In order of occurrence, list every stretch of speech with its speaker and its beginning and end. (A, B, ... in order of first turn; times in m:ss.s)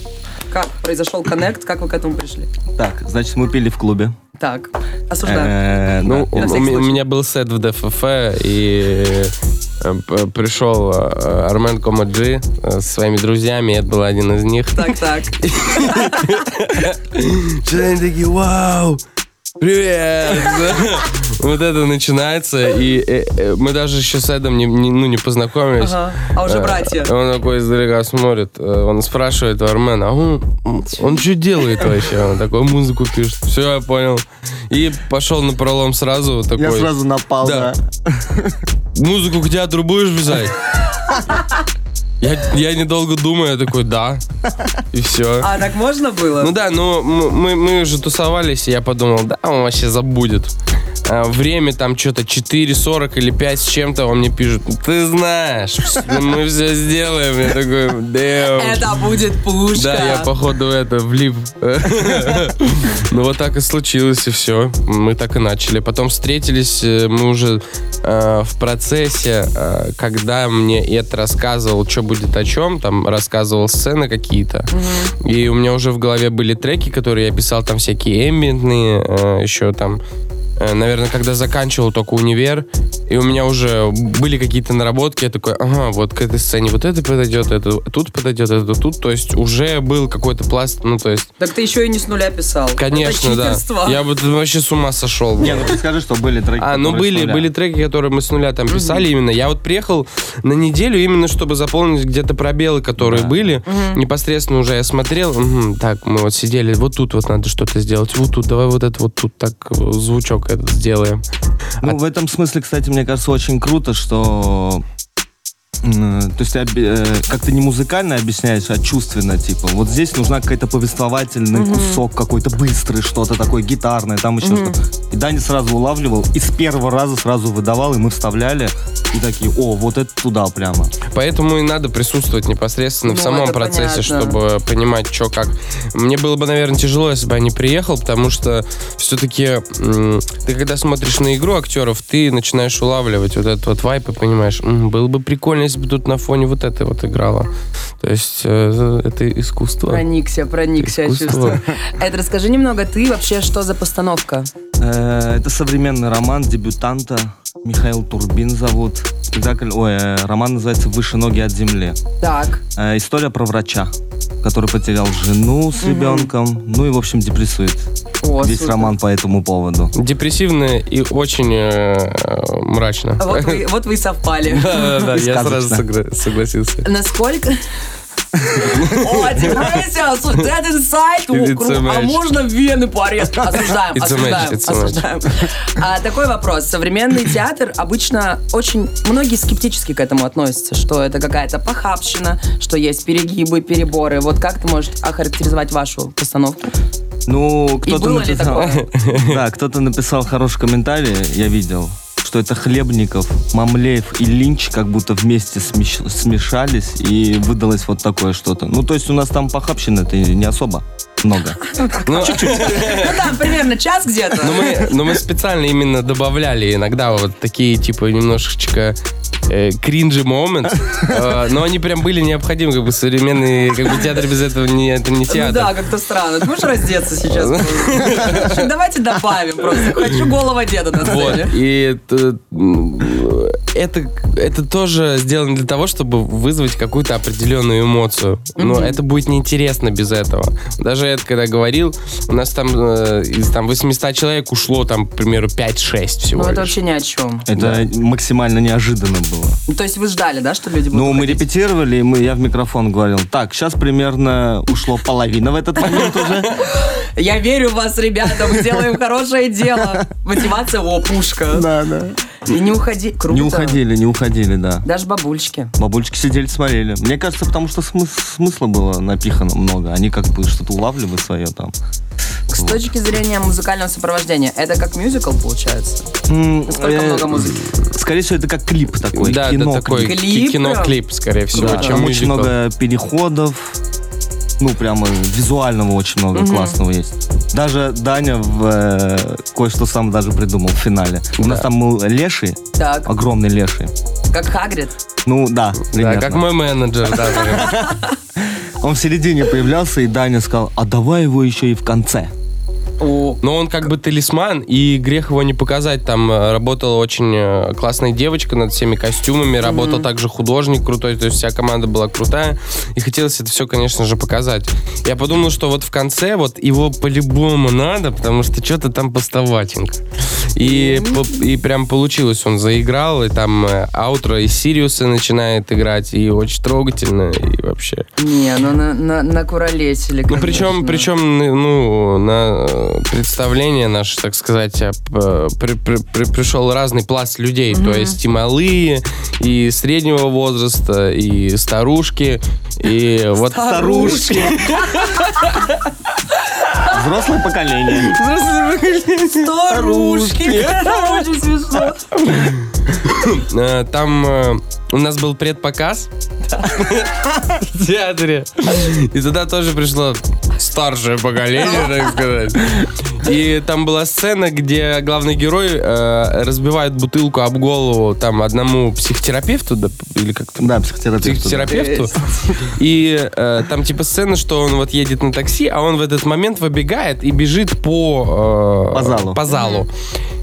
0:00.5-0:02.5 A
0:02.7-0:04.2 B
0:04.4-0:05.5 A
0:05.2-0:06.6 B
0:06.0-0:19.0 C
0:06.4-0:07.0 A
0:14.7-0:16.3 A
0:19.6-0:37.7 C
0:25.8-0:27.1 A
0:36.6-0:38.6 B
0:38.9-0:40.6 C
0:42.2-0:44.2 C
0:44.9-0:45.5 C
0:45.4-0:46.5 A
0:46.4-0:50.5 C
0:51.0-0:58.9 C
0:58.6-1:00.3 A
0:59.7-1:20.0 C
1:14.7-1:15.1 A
1:20.6-1:31.3 C
1:31.4-1:34.0 A
1:32.8-1:35.7 C
1:35.4-1:37.5 B
1:36.6-1:51.2 C
1:38.7-1:39.0 A
1:43.0-1:43.6 B
1:43.6-1:44.0 A
1:51.8-1:54.8 B
1:55.8-2:10.9 B
2:01.5-2:02.0 A
2:04.4-2:04.8 A
2:11.1-2:30.0 C
2:13.0-2:14.4 A
2:29.9-2:34.5 A
2:30.8-2:31.6 C
2:34.8-2:42.0 B
2:42.2-2:42.6 A
2:42.8-2:49.9 B
2:45.8-2:46.3 A
2:48.2-2:48.9 A
2:50.0-2:53.6 C
2:53.2-2:54.8 A
2:54.5-2:56.8 C
2:54.9-2:55.8 B
2:56.8-2:57.6 A
2:58.6-3:16.8 A
2:58.8-2:59.7 C
3:01.3-3:02.2 C
3:03.9-3:05.0 C
3:17.3-3:31.6 B
3:17.8-3:18.9 A
3:18.6-3:19.4 C
3:31.6-3:34.9 A
3:32.0-3:33.3 C
3:32.1-3:33.2 B
3:34.4-3:39.0 C
3:39.5-3:45.8 C
3:45.3-3:51.5 A
3:47.3-3:48.7 C
3:51.0-4:06.7 C
3:58.6-3:59.0 A
4:06.3-4:07.5 A
4:07.5-4:09.6 B
4:07.6-4:07.8 C
4:09.7-4:11.4 A
4:10.9-4:16.5 B
4:15.8-4:21.7 A
4:18.5-4:18.8 B
4:21.5-4:22.2 B
4:22.4-4:23.8 A
4:23.3-4:24.8 B
4:24.8-4:25.7 A
4:25.8-4:31.8 B
4:32.5-4:36.1 A
4:32.5-4:32.8 B
4:36.3-4:40.2 B
4:36.7-4:37.7 A
4:39.1-4:42.5 C
4:40.0-4:41.0 A
4:41.5-4:42.0 A
4:41.5-4:43.8 B
4:44.6-4:53.9 B
4:46.3-4:46.8 A
4:51.4-4:51.6 C
4:52.8-4:53.1 A
4:54.3-4:54.9 A
4:55.2-4:56.4 B
4:55.9-4:57.8 C
4:57.4-5:02.3 B
5:03.0-5:03.4 A
5:03.4-5:20.0 C
5:09.6-5:10.1 A
5:20.5-5:28.0 C
5:20.6-5:21.4 A
5:28.2-5:31.1 A
5:30.3-5:45.6 C
5:37.7-5:38.2 A
5:43.4-5:45.7 A
5:43.6-5:44.7 B
5:46.8-5:48.2 B
5:48.1-5:49.4 C
5:49.2-5:52.1 A
5:49.7-5:50.9 B
5:52.2-5:56.1 C
5:56.5-5:56.8 A
5:56.7-6:19.9 C
6:10.6-6:11.8 B
6:11.7-6:12.6 A
6:18.9-6:19.4 B
6:19.5-6:19.8 A